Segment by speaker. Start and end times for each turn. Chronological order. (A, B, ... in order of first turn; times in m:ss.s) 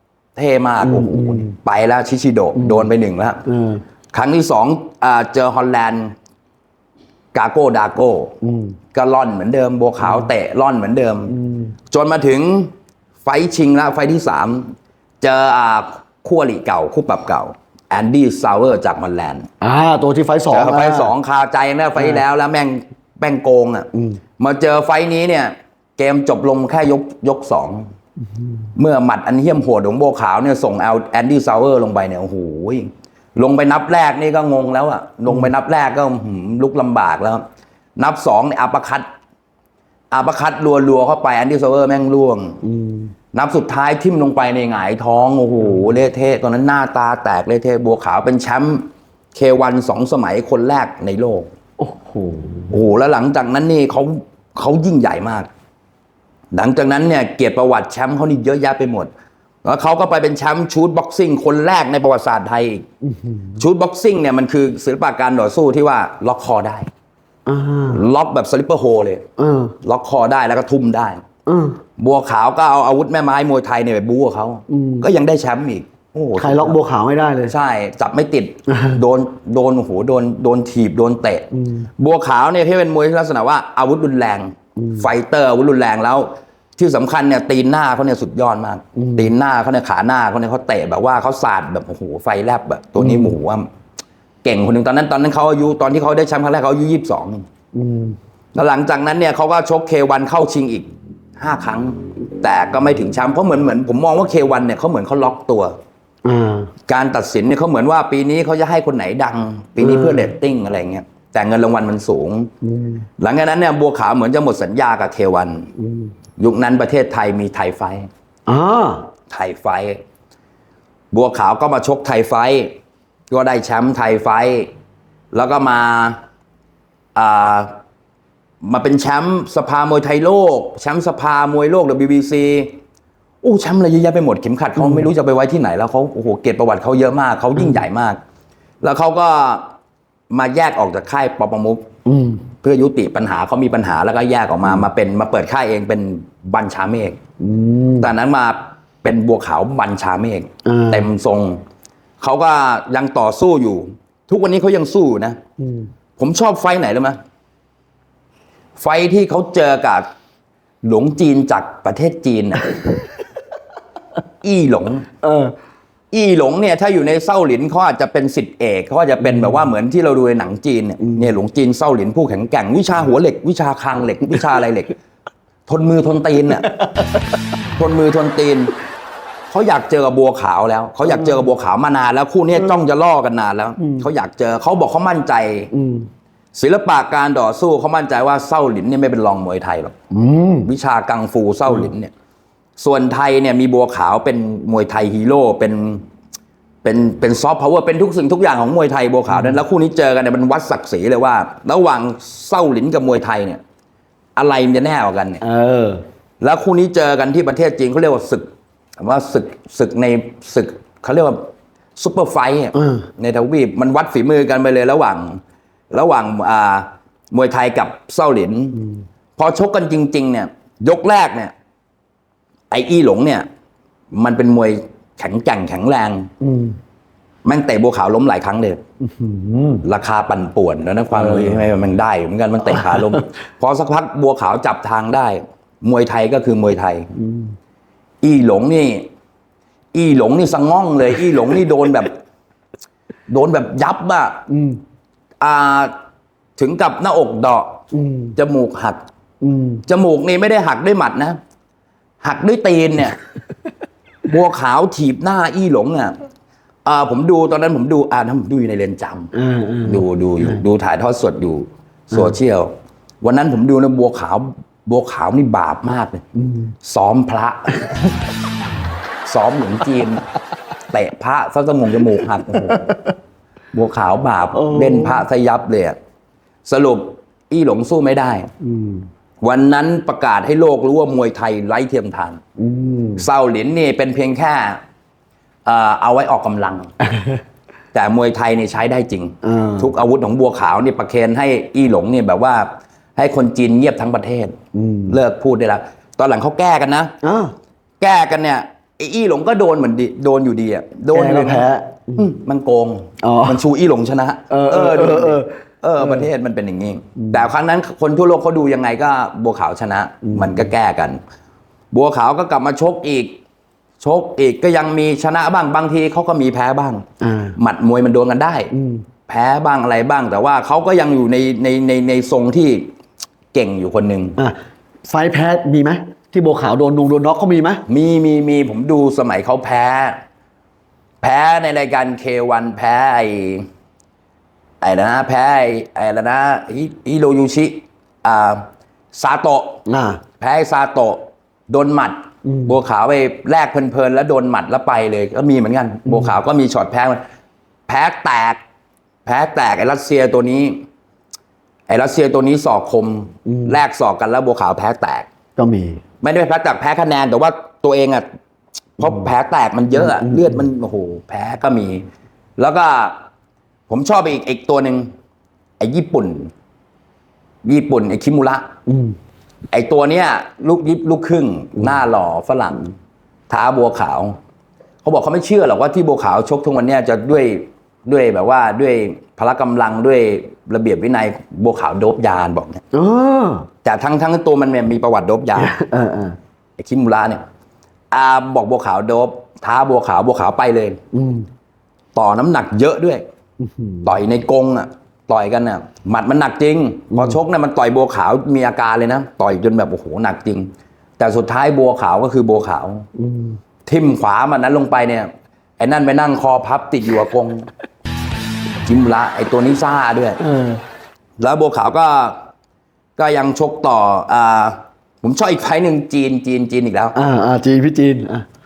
0:00.4-0:03.4 A
0:00.8-0:01.5 B
0:02.6-0:02.9 B
0:03.4-0:03.8 B
0:04.1-0:06.1 A
0:07.3-0:08.3 A
0:08.4-0:08.8 B
0:08.9-0:11.3 A
0:10.0-0:10.3 B
0:11.3-0:11.7 B
0:11.9-0:12.7 A
0:13.2-0:19.5 A
0:19.6-0:21.1 B
0:20.5-0:27.8 A
0:22.0-0:22.2 B
0:23.9-0:24.2 B
0:28.8-0:37.4 A
0:38.0-0:39.0 A
0:40.1-0:42.6 A
0:42.6-0:43.1 B
0:43.3-0:51.5 A
0:51.8-0:52.8 B
0:52.7-0:55.5 A
0:56.5-0:59.1 A
0:59.6-1:02.8 A
1:03.0-1:03.6 B
1:03.6-1:06.9 A
1:07.5-1:08.0 B
1:07.9-1:09.2 A
1:09.4-1:09.8 B
1:09.8-1:11.2 A
1:11.4-1:11.8 B
1:12.0-1:16.8 A
1:14.7-1:15.1 B
1:16.4-1:17.5 B
1:17.5-1:33.6 A
1:18.7-1:19.0 B
1:21.5-1:21.9 B
1:24.8-1:25.1 B
1:29.0-1:29.3 B
1:33.0-1:33.4 B
1:34.4-1:37.4 A
1:37.7-1:38.2 B
1:38.5-1:45.7 A
1:46.2-1:46.7 B
1:46.9-1:52.5 A
1:49.8-1:50.3 B
1:52.6-1:53.0 B
1:53.2-1:55.7 A
1:55.8-1:56.1 B
1:56.4-1:58.1 A
1:58.5-1:59.1 B
1:59.3-2:00.0 A
2:01.1-2:02.7 A
2:03.3-2:04.7 A
2:05.3-2:06.2 A
2:07.1-2:07.7 A
2:08.6-2:12.7 A
2:13.4-2:18.2 A
2:14.8-2:15.1 B
2:17.6-2:17.8 B
2:18.8-2:19.7 A
2:20.3-2:21.8 A
2:22.0-2:22.4 B
2:22.6-2:27.2 A
2:27.4-2:28.1 B
2:28.0-2:31.6 A
2:30.6-2:31.1 B
2:32.2-2:35.4 A
2:35.6-2:35.9 B
2:36.2-2:37.2 A
2:38.8-2:40.0 A
2:40.8-2:43.0 A
2:44.4-2:45.1 A
2:45.2-2:45.6 B
2:46.1-2:54.9 A
2:49.2-2:49.6 B
2:51.0-2:51.3 B
2:55.7-2:56.8 A
2:56.7-2:57.4 B
2:57.8-2:58.8 A
2:59.5-3:05.7 A
3:01.0-3:01.5 B
3:03.8-3:04.1 B
3:05.7-3:06.1 B
3:06.5-3:09.9 A
3:10.1-3:10.7 B
3:10.6-3:12.1 A
3:12.8-3:16.0 A
3:16.8-3:23.6 A
3:19.3-3:19.6 B
3:24.4-3:25.4 A
3:25.4-3:26.0 B
3:26.4-3:28.5 A
3:29.0-3:31.4 A
3:32.0-3:35.4 A
3:32.8-3:33.0 B
3:35.9-3:38.8 A
3:39.4-3:41.5 A
3:42.7-3:43.4 A
3:44.1-3:46.3 A
3:46.4-3:46.8 B
3:47.4-3:48.8 A
3:49.0-3:49.8 B
3:49.8-3:57.1 A
3:51.1-3:51.6 B
3:52.6-3:53.2 B
3:57.2-3:57.5 B
3:58.2-3:59.1 A
3:59.9-4:02.2 A
4:03.3-4:04.4 A
4:04.5-4:04.8 B
4:05.4-4:05.9 A
4:06.6-4:07.8 A
4:07.9-4:08.4 B
4:08.4-4:09.0 A
4:09.4-4:09.8 B
4:09.9-4:11.4 A
4:12.2-4:13.2 A
4:14.2-4:16.2 A
4:16.8-4:19.3 A
4:19.3-4:20.6 B
4:19.8-4:22.7 A
4:23.2-4:26.2 A
4:26.4-4:26.7 B
4:26.8-4:28.0 A
4:29.2-4:30.2 A
4:30.9-4:33.0 A
4:32.7-4:32.9 B
4:33.7-4:36.0 A
4:34.5-4:35.2 B
4:36.6-4:38.5 A
4:38.6-4:39.1 B
4:39.4-4:42.4 A
4:42.6-4:43.2 B
4:43.2-4:44.8 A
4:45.6-4:46.9 A
4:47.9-4:54.5 A
4:49.4-4:49.9 B
4:54.7-4:55.2 B
4:55.1-4:57.1 A
4:57.2-4:57.5 B
4:58.0-5:01.6 A
5:01.1-5:02.3 B
5:02.2-5:11.2 A
5:03.2-5:03.6 B
5:04.5-5:06.3 B
5:07.2-5:07.4 B
5:10.2-5:10.7 B
5:11.9-5:13.4 A
5:14.0-5:17.0 A
5:17.2-5:17.6 B
5:17.6-5:18.7 A
5:18.7-5:19.0 B
5:19.3-5:22.9 A
5:23.5-5:24.4 A
5:24.4-5:27.8 B
5:27.9-5:30.2 A
5:31.2-5:33.7 A
5:34.8-5:38.6 A
5:39.1-5:39.8 A
5:39.9-5:40.2 B
5:40.4-5:47.2 A
5:42.4-5:42.8 B
5:46.0-5:46.4 B
5:47.9-5:48.6 A
5:49.2-5:50.8 A
5:51.9-5:55.3 A
5:53.4-5:53.8 B
5:55.6-5:56.0 B
5:56.2-5:58.2 A
5:59.0-6:02.0 A
5:59.0-5:59.3 B
5:59.9-6:00.7 B
6:02.6-6:03.2 A
6:03.9-6:05.1 A
6:05.8-6:06.5 A
6:07.6-6:08.6 A
6:08.9-6:09.2 B
6:09.7-6:12.9 A
6:13.5-6:14.4 A
6:15.0-6:22.8 A
6:22.9-6:23.7 B
6:23.8-6:25.8 A
6:25.6-6:26.4 B
6:26.8-6:27.4 A
6:28.1-6:31.0 A
6:31.1-6:31.5 B
6:32.1-6:33.2 A
6:33.6-6:34.1 B
6:34.0-6:43.0 A
6:37.1-6:37.4 B
6:43.1-6:43.6 B
6:43.8-6:47.7 A
6:48.8-6:50.4 A
6:50.4-6:50.8 B
6:51.4-6:52.4 A
6:53.2-6:57.2 A
6:57.1-6:58.4 B